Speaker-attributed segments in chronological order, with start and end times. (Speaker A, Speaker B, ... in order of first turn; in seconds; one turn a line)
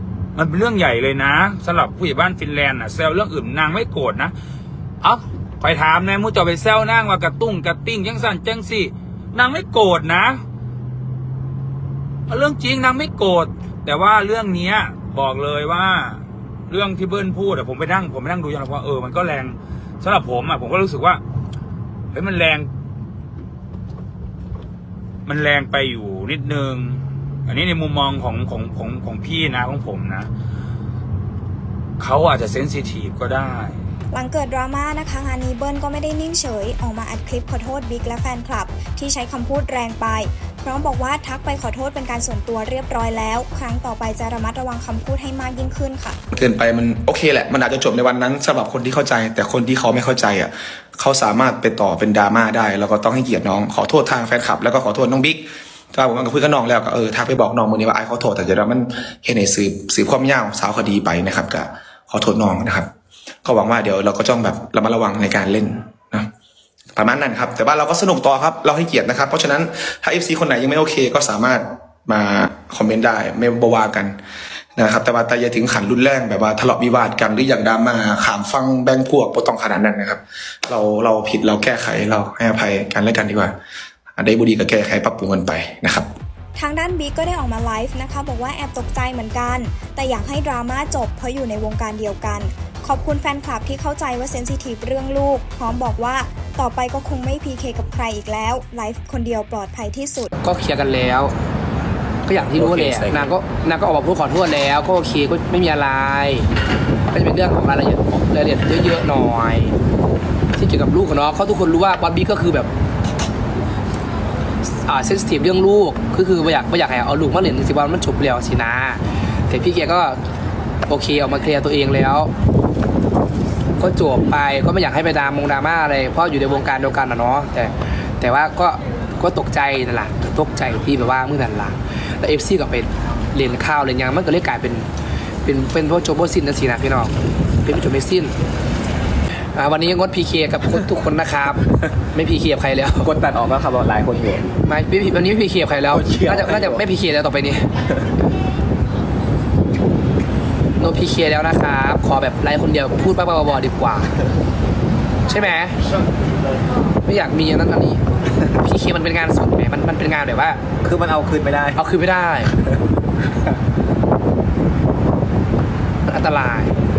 Speaker A: 0.3-4.3
Speaker A: 5.0-10.4
Speaker A: 12.3-21.2
Speaker A: 22.1-22.7
Speaker A: 25.2-30.3
Speaker A: 32.0-33.8
Speaker B: 34.1-46.2
Speaker C: 46.3-62.9
Speaker C: 63.4-66.3
Speaker C: 67.0-74.2
Speaker C: 74.8-83.5
Speaker C: 84.2-86.1
Speaker B: 86.5-100.3
Speaker D: 100.4-101.3
Speaker D: 102.3-106.5
Speaker E: 102.3-103.3
Speaker D: 107.1-109.8
Speaker D: 110.6-112.7
Speaker D: 114.8-120.2
Speaker D: 120.9-122.3
Speaker D: 123.8-134.9
Speaker D: 135.4-137.1
Speaker D: 137.6-138.3
Speaker D: 139.5-143.1
Speaker E: 143.0-144.5
Speaker D: 144.6-147.7
Speaker E: 145.9-146.8
Speaker D: 150.8-154.1
Speaker D: 155.3-155.8
Speaker D: 157.0-160.6
Speaker E: 160.8-161.8
Speaker D: 161.8-162.5
Speaker D: 166.1-166.7